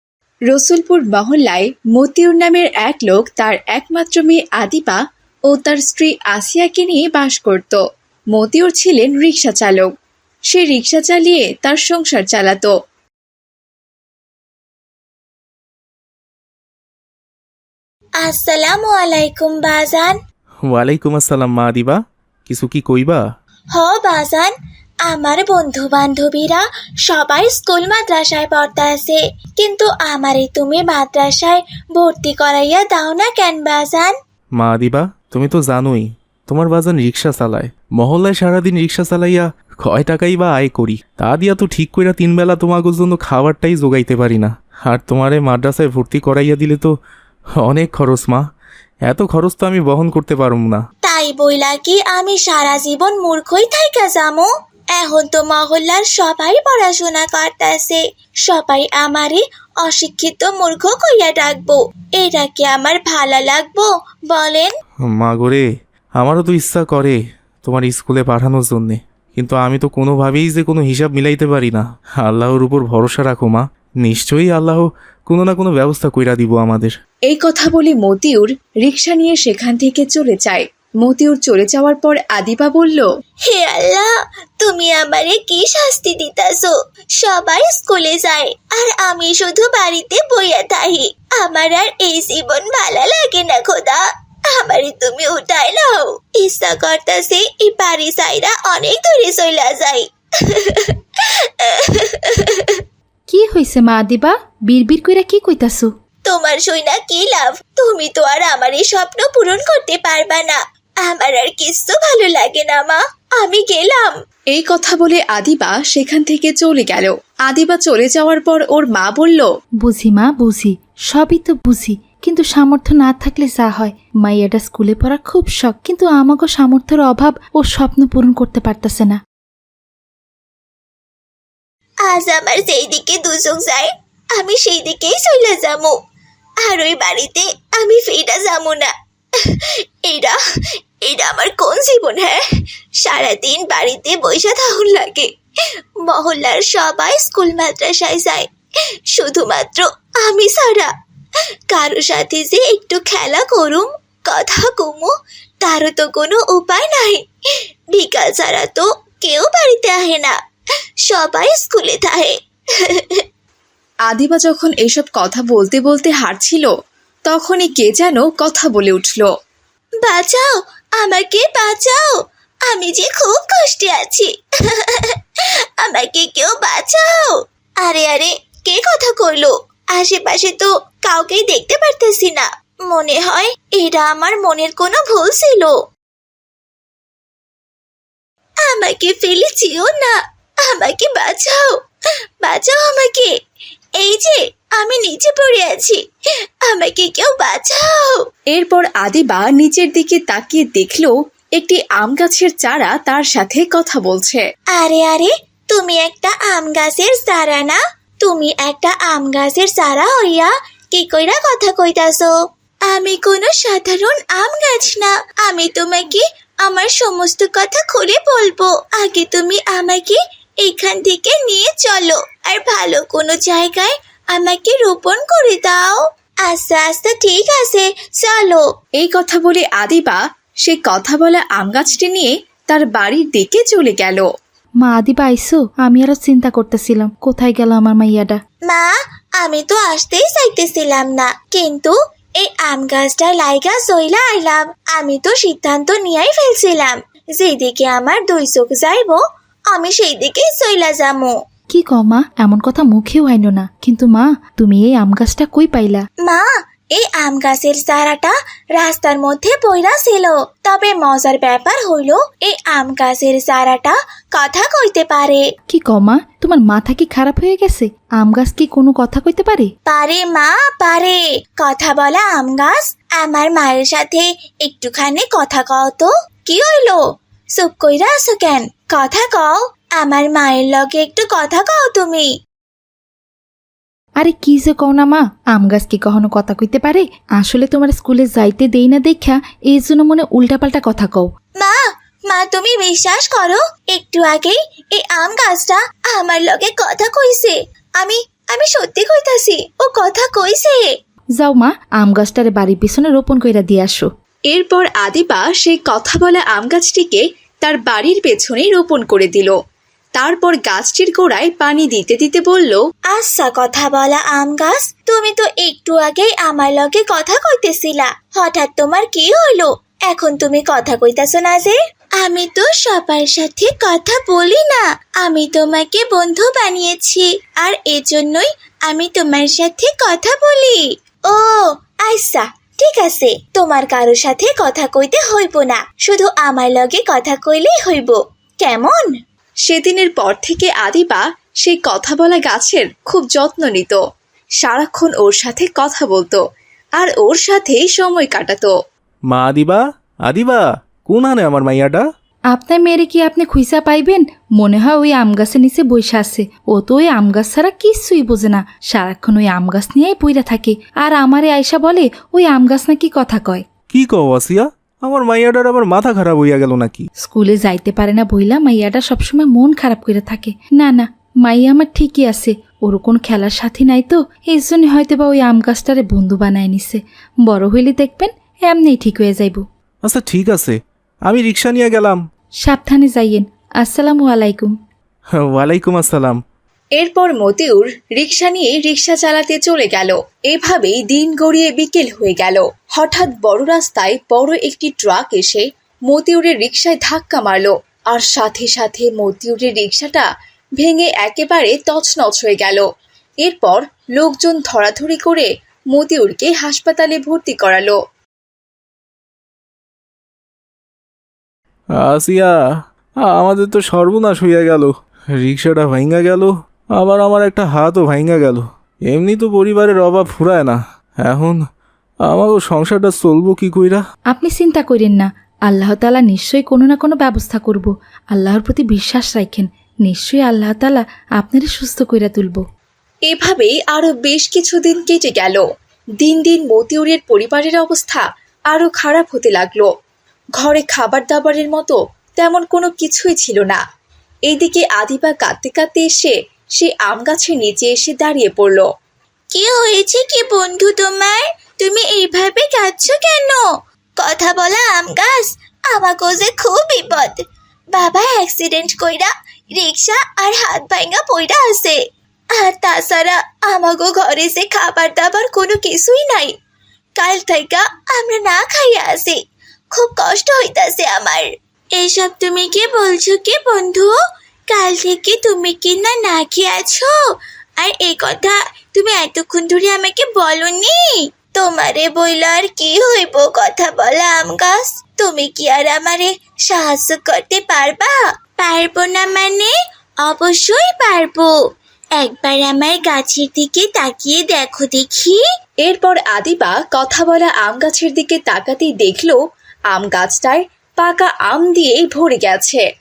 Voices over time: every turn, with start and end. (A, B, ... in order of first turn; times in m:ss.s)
0:00.5-0:07.8 A
0:08.3-0:09.9 A
0:10.5-0:12.7 A
0:18.2-0:20.2 B
0:20.7-0:23.2 C
0:23.7-0:24.5 B
0:25.0-0:34.1 B
0:34.6-0:46.9 C
0:47.6-0:48.4 C
0:49.1-0:50.8 C
0:51.0-1:04.7 B
1:05.1-1:05.6 C
1:06.2-1:16.9 C
1:17.3-1:23.0 A
1:23.4-1:42.8 B
1:43.3-1:45.9 D
1:46.3-1:54.1 B
1:54.5-1:59.5 A
1:59.8-2:09.2 D
2:12.1-2:16.0 B
2:16.6-2:20.4 B
2:21.0-2:22.4 B
2:23.0-2:25.3 B
2:26.0-2:28.5 B
2:29.1-2:30.9 B
2:31.7-2:37.2 B
2:37.9-2:40.4 B
2:41.1-2:43.2 B
2:44.1-2:46.7 A
2:47.3-2:49.3 A
2:50.0-3:05.8 B
3:08.6-3:11.8 B
3:12.4-3:13.3 B
3:14.0-3:16.0 B
3:16.6-3:18.2 B
3:18.5-3:24.4 A
3:24.7-3:32.3 B
3:32.9-3:48.6 B
3:49.0-3:54.2 A
3:54.8-3:58.4 D
3:58.7-4:11.4 B
4:11.7-4:16.1 D
4:16.2-4:25.4 B
4:25.7-4:29.7 D
4:29.9-4:37.0 B
4:37.6-4:42.3 B
4:44.2-4:51.3 D
4:51.6-5:00.9 B
5:01.4-5:04.1 D
5:04.5-5:09.6 A
5:10.2-5:12.8 A
5:13.1-5:39.1 B
5:39.7-5:44.0 A
5:44.6-5:46.4 A
5:47.0-5:48.7 A
5:49.3-5:52.0 C
5:52.5-6:03.6 D
6:03.9-6:07.1 C
6:07.2-6:19.6 D
6:20.0-6:22.2 C
6:22.6-6:24.7 D
6:25.4-6:26.4 C
6:27.0-6:40.3 A
6:40.8-6:42.9 A
6:43.4-6:48.0 A
6:52.0-6:52.6 C
6:53.2-7:01.6 C
7:02.3-7:04.0 C
7:04.3-7:12.6 D
7:13.3-7:15.6 A
7:16.2-7:19.9 A
7:20.6-7:23.8 A
7:24.5-7:28.9 A
7:29.5-7:33.6 B
7:34.2-7:37.4 B
7:37.9-7:42.0 B
7:42.5-7:46.6 B
7:47.2-7:49.4 B
7:49.9-7:54.1 B
7:54.7-7:57.2 B
7:57.8-8:11.5 B
8:12.2-8:15.4 B
8:15.8-8:19.4 A
8:19.9-8:22.8 A